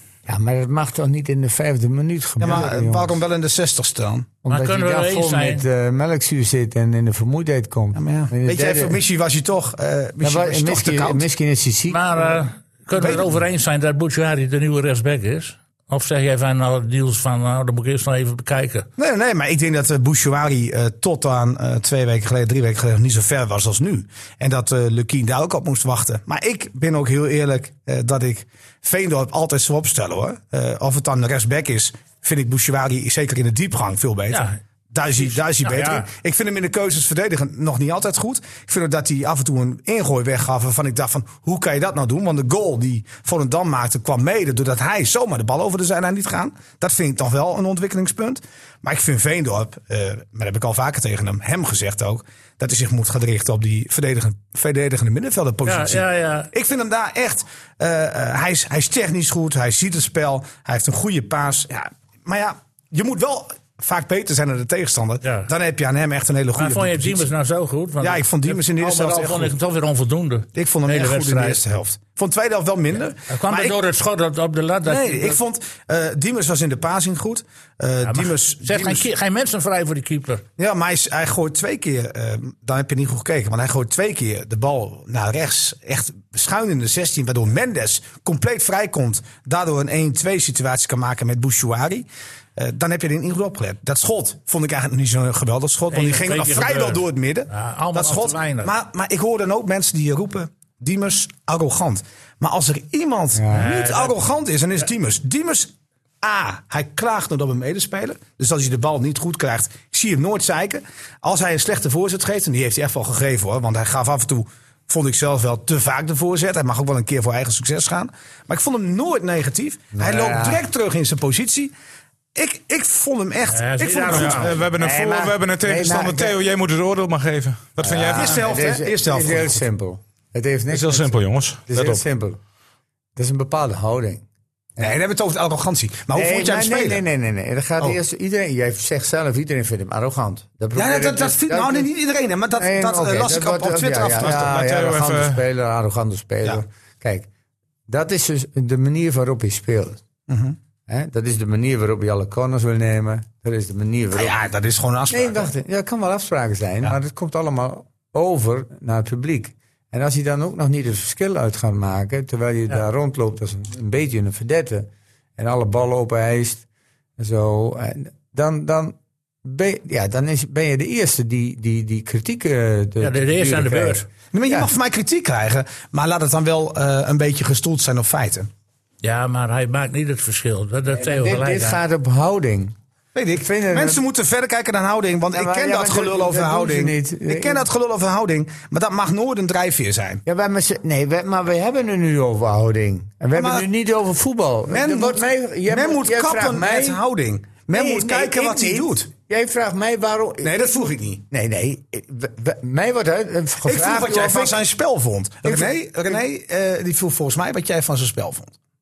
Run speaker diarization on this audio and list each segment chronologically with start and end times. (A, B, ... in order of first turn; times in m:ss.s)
0:00.3-0:03.2 A
0:02.4-0:04.3 B
0:04.4-0:09.0 A
0:04.5-0:05.6 C
0:08.0-0:11.2 B
0:10.2-0:12.4 A
0:11.9-0:18.9 C
0:13.0-0:13.4 B
0:19.0-1:07.3 B
0:34.3-0:34.6 C
0:35.1-0:36.1 C
0:55.6-0:56.5 C
1:05.2-1:05.5 C
1:06.6-1:11.6 C
1:08.0-1:09.6 B
1:10.6-1:13.8 B
1:13.3-1:15.4 C
1:14.9-1:19.1 B
1:18.0-1:20.4 C
1:20.6-1:32.1 B
1:32.6-2:01.7 B
1:35.9-1:38.7 C
1:43.4-1:43.7 A
1:43.5-1:44.2 C
2:00.0-2:00.7 A
2:02.4-2:04.6 B
2:03.5-2:04.6 C
2:04.1-2:08.4 D
2:04.8-2:06.4 A
2:07.8-2:12.4 A
2:08.1-2:09.6 B
2:10.7-2:12.0 D
2:13.2-2:14.2 A
2:14.8-2:17.0 B
2:16.1-2:21.9 A
2:20.8-2:24.7 B
2:22.6-2:27.3 A
2:24.4-2:25.4 D
2:27.9-2:30.0 A
2:30.3-2:30.6 B
2:30.9-2:34.4 A
2:34.1-2:35.5 B
2:35.1-2:46.6 A
2:47.2-2:54.7 A
2:53.0-2:54.0 C
2:54.3-2:58.5 B
2:59.0-3:01.8 C
3:00.9-3:02.8 A
3:03.2-3:10.2 B
3:03.4-3:04.0 A
3:05.3-3:07.6 A
3:10.3-3:17.0 A
3:13.3-3:13.7 B
3:14.7-3:19.1 B
3:17.7-3:24.6 A
3:20.4-3:21.2 B
3:23.6-3:28.5 B
3:25.4-3:26.2 A